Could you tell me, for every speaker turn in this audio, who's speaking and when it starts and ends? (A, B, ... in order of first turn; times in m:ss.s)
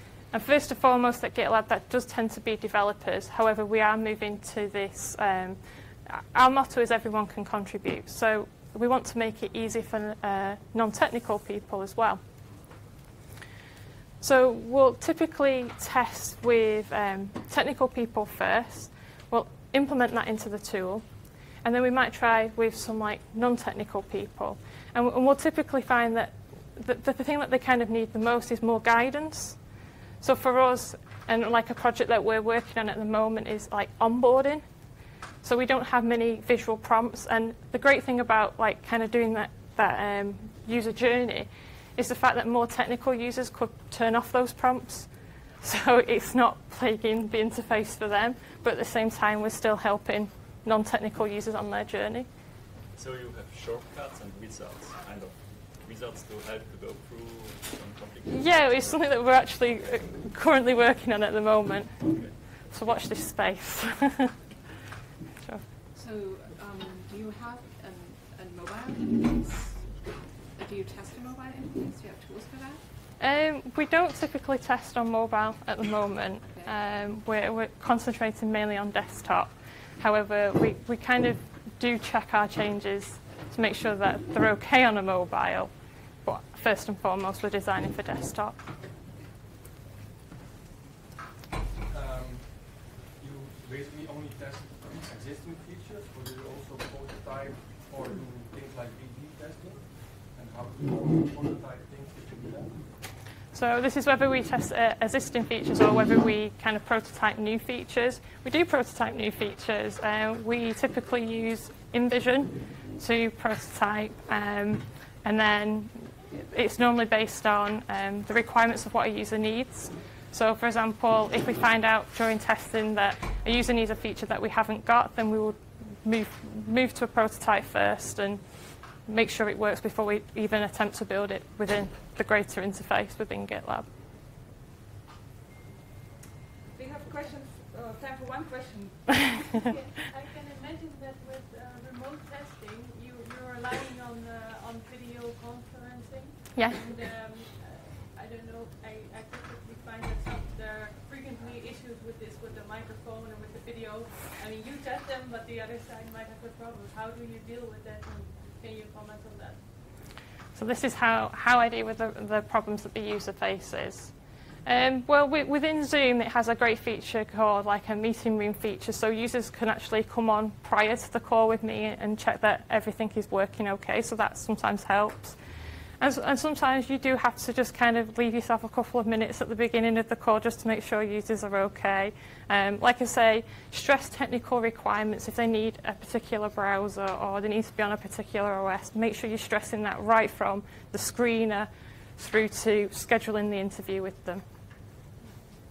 0:00.3-0:12.2 A
0:14.2-0:21.0 A
0:21.6-0:29.6 A
0:30.2-0:34.6 A
0:35.4-0:52.3 A
0:52.9-1:00.1 B
0:58.3-1:04.3 A
1:02.0-1:02.4 B
1:05.9-1:12.8 C
1:13.2-1:28.6 A
1:31.9-1:42.8 D
1:43.5-2:08.4 A
2:09.0-2:13.9 A
2:16.7-2:19.7 C
2:19.7-2:39.7 E
2:26.7-2:27.0 C
2:40.5-2:55.4 A
2:56.0-3:14.4 A